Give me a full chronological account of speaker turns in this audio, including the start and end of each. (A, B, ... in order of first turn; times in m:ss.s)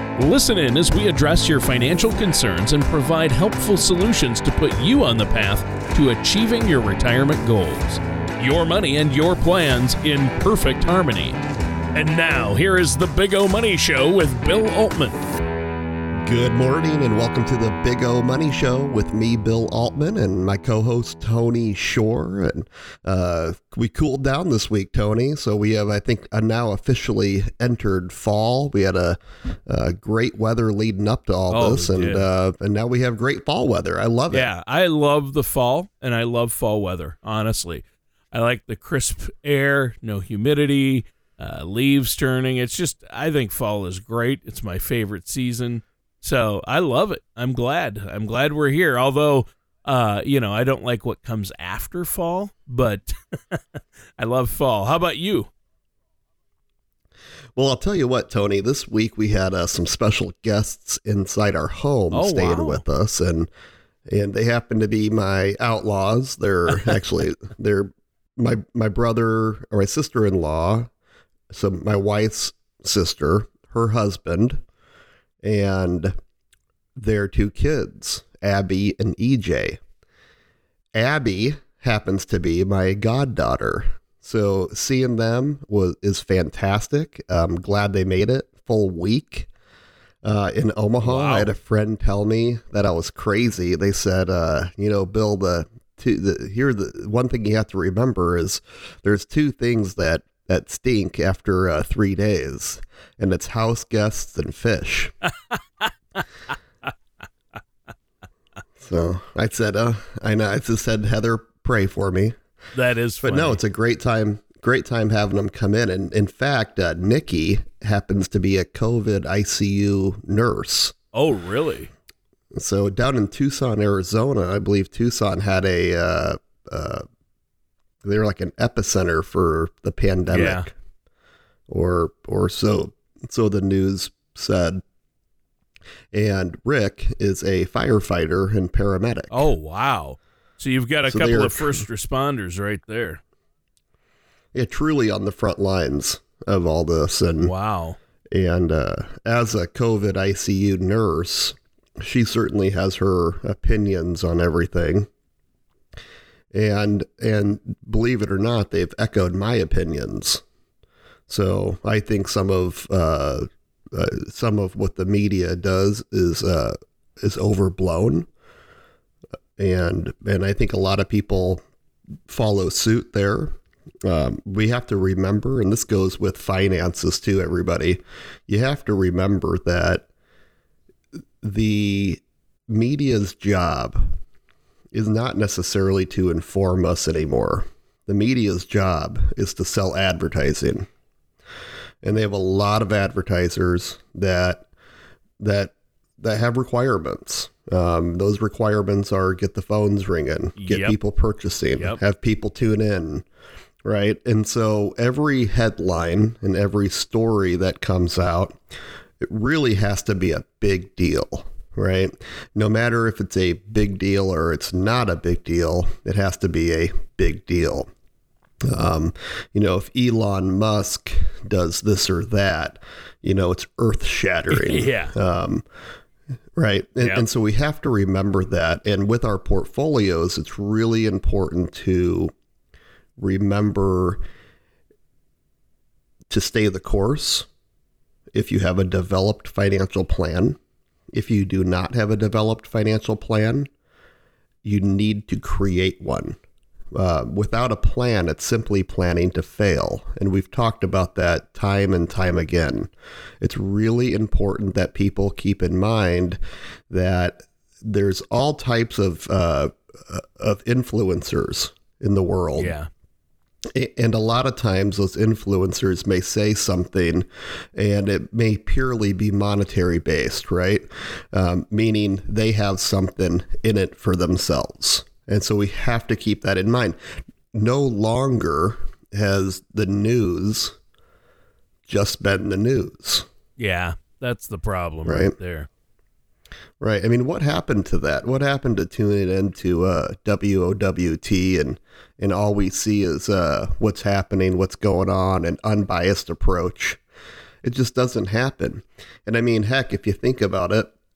0:00.2-0:11.4 A
0:11.9-0:15.3 A
0:16.2-0:34.5 B
0:31.5-0:32.3 A
0:34.3-0:55.5 A
0:57.6-1:03.5 B
1:02.1-1:02.8 A
1:04.1-1:10.9 B
1:11.5-1:14.6 B
1:15.4-1:16.2 B
1:17.0-1:19.8 B
1:20.9-1:29.5 B
1:30.2-1:45.1 B
1:31.0-1:31.5 A
1:48.8-1:52.4 B
1:52.7-1:53.6 A
1:53.2-2:01.0 B
2:01.1-2:01.9 A
2:02.6-2:07.0 B
2:08.0-2:10.8 B
2:10.3-2:10.7 A
2:11.7-2:14.8 B
2:16.1-2:19.4 B
2:19.3-2:23.2 A
2:21.1-2:21.8 B
2:24.5-2:27.5 B
2:27.4-2:28.0 A
2:28.3-2:35.1 B
2:36.5-2:40.4 B
2:41.3-2:48.3 B
2:49.6-2:51.6 B
2:52.3-3:00.1 B
3:01.4-3:04.0 B
3:04.9-3:10.9 B
3:12.0-3:14.7 B
3:15.4-3:23.2 B
3:20.6-3:21.0 A
3:23.8-3:28.6 B
3:29.2-3:37.9 B
3:38.6-3:45.6 B
3:44.5-3:45.1 A
3:46.6-3:52.3 B
3:53.2-3:54.2 B
3:56.3-3:57.5 B
3:58.3-4:00.6 B
4:01.1-4:03.7 B
4:04.6-4:06.4 B
4:07.0-4:16.4 B
4:16.9-4:22.8 B
4:22.6-4:22.9 A
4:23.8-4:37.0 B
4:37.5-4:40.8 B
4:41.9-4:43.3 B
4:43.6-4:45.7 A
4:45.0-4:45.3 B
4:46.8-4:57.0 B
4:57.6-5:00.9 B